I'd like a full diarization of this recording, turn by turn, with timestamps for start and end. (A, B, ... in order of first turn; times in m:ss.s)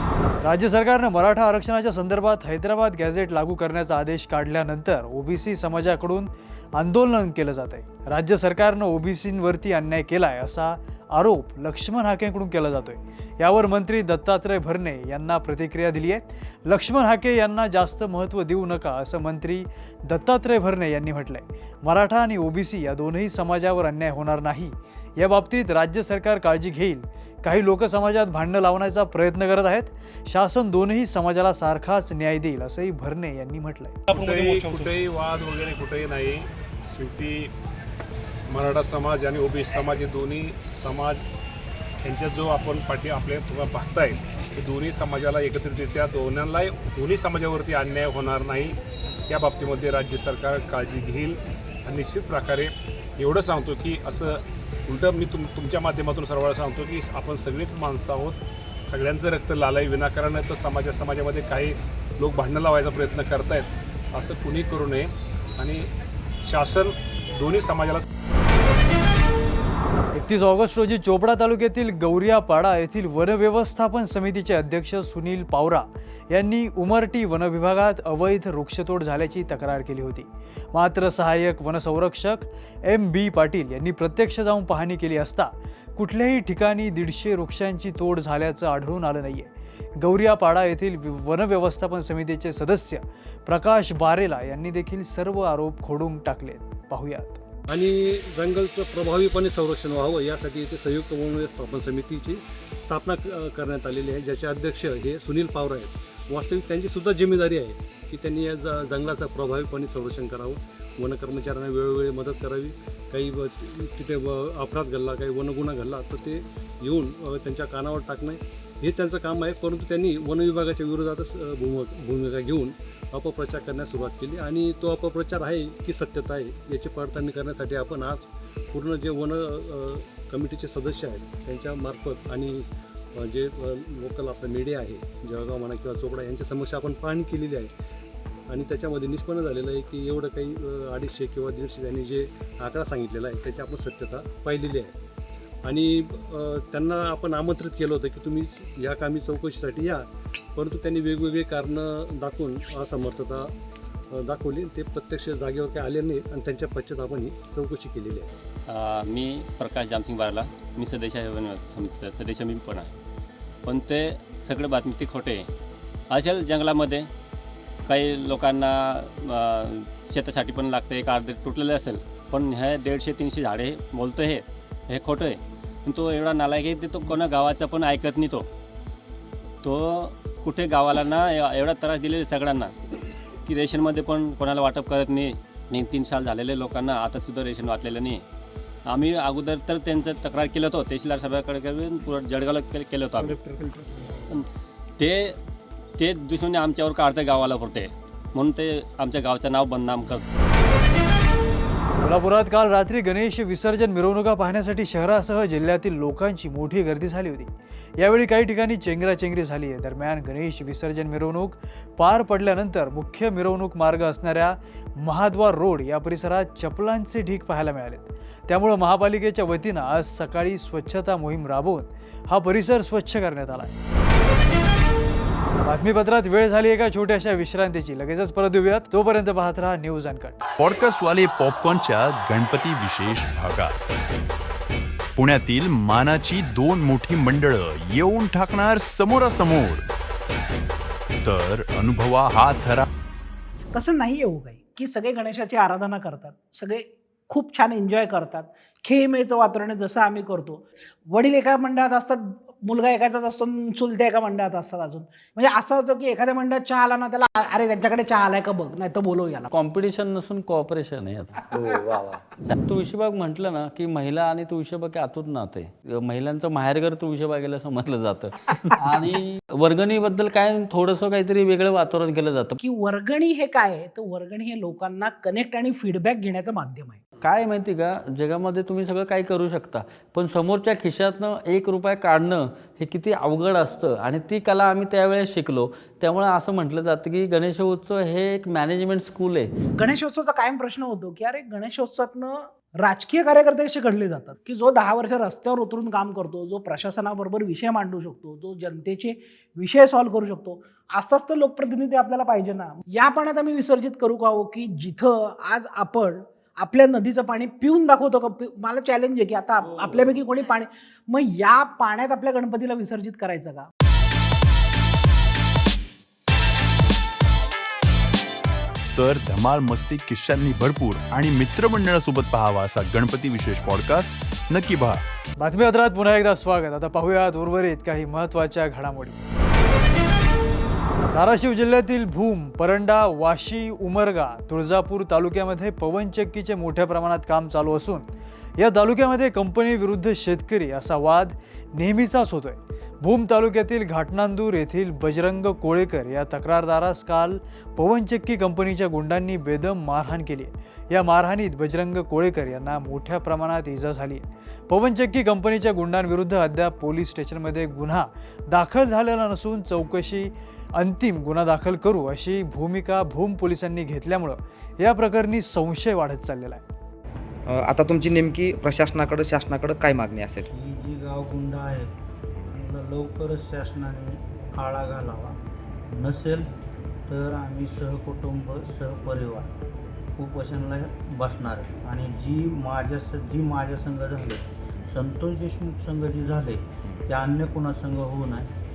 0:00.4-0:34.0 A
0:34.1-0:37.5 B
0:34.1-0:34.9 C
0:38.5-0:41.2 B
0:42.0-0:48.8 B
0:49.3-1:05.9 B
1:06.4-1:08.0 B
1:10.1-1:37.4 A
1:37.7-2:12.6 C
2:13.2-2:17.7 C
2:18.5-2:24.9 C
2:25.6-2:30.0 C
2:30.6-2:33.5 C
2:34.1-2:38.3 C
2:38.7-2:42.9 D
2:43.6-2:45.5 D
2:46.1-2:47.1 D
2:47.9-2:58.5 D
2:59.6-3:02.7 D
3:03.5-3:08.2 D
3:08.9-3:13.4 D
3:15.0-3:15.4 D
3:16.0-3:20.2 D
3:22.0-3:43.7 A
3:45.6-3:50.4 A
3:50.6-3:53.7 E
3:55.2-3:59.8 E
4:01.2-4:02.8 E
4:03.7-4:19.5 F
4:19.5-4:32.6 G
4:32.6-4:37.0 F
4:37.2-4:49.5 G
4:49.8-5:13.7 F
5:18.9-5:25.0 E
5:25.4-5:29.2 A
5:31.1-6:06.6 A
6:07.6-6:10.4 H
6:10.5-6:11.9 I
6:12.5-6:15.4 I
6:15.9-6:16.5 I
6:17.1-6:19.5 I
6:20.2-6:28.5 I